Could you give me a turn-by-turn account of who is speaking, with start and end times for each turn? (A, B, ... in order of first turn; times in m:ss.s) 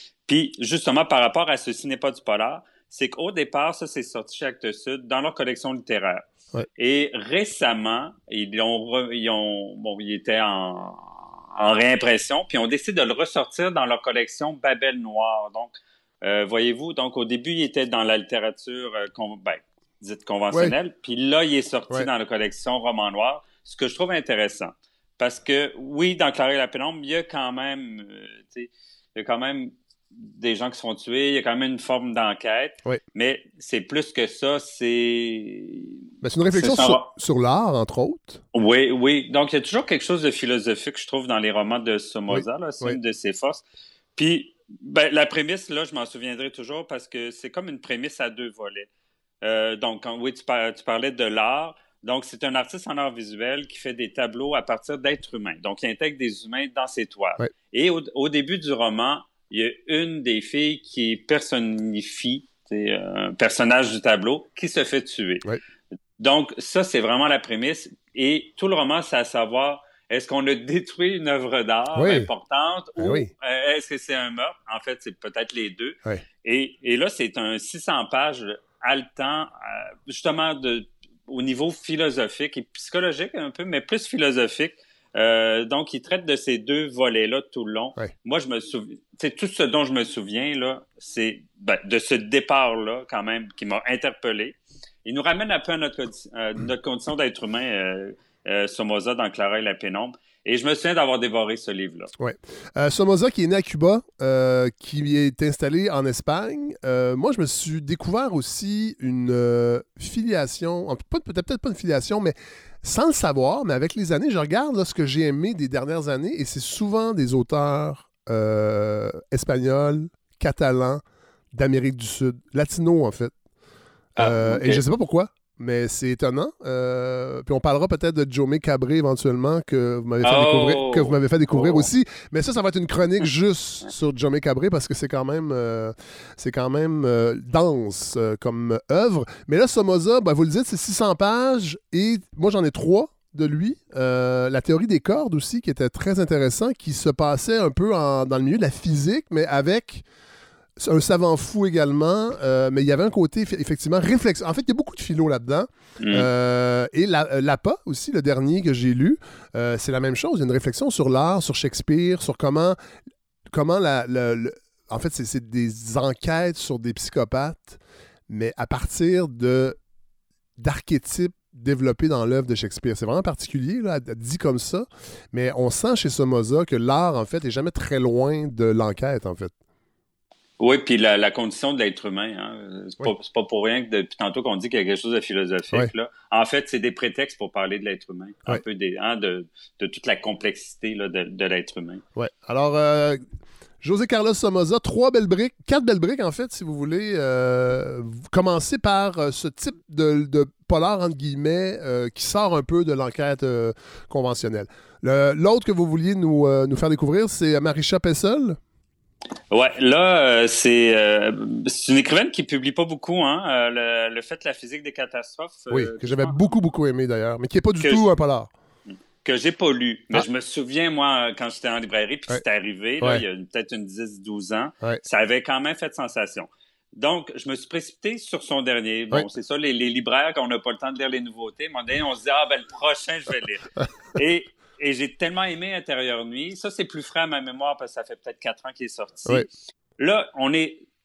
0:00.2-0:36.0 A
0:36.2-0:38.4 B
0:36.5-0:37.1 A
0:38.5-0:48.9 A
0:42.3-0:43.0 B
0:49.4-1:05.4 A
1:06.2-1:42.1 A
1:12.0-1:12.3 B
1:13.0-1:13.3 B
1:42.2-2:01.0 B
2:01.5-2:03.3 B
2:04.2-2:04.8 A
2:04.2-2:30.0 B
2:10.2-2:11.9 A
2:30.8-2:42.8 B
2:36.0-2:36.3 A
2:43.5-2:49.8 B
2:50.6-2:59.5 B
3:00.6-3:12.0 A
3:12.2-3:13.2 B
3:13.8-3:28.6 B
3:29.5-3:36.5 A
3:35.7-3:38.5 B
3:37.8-3:38.0 A
3:39.2-4:00.8 A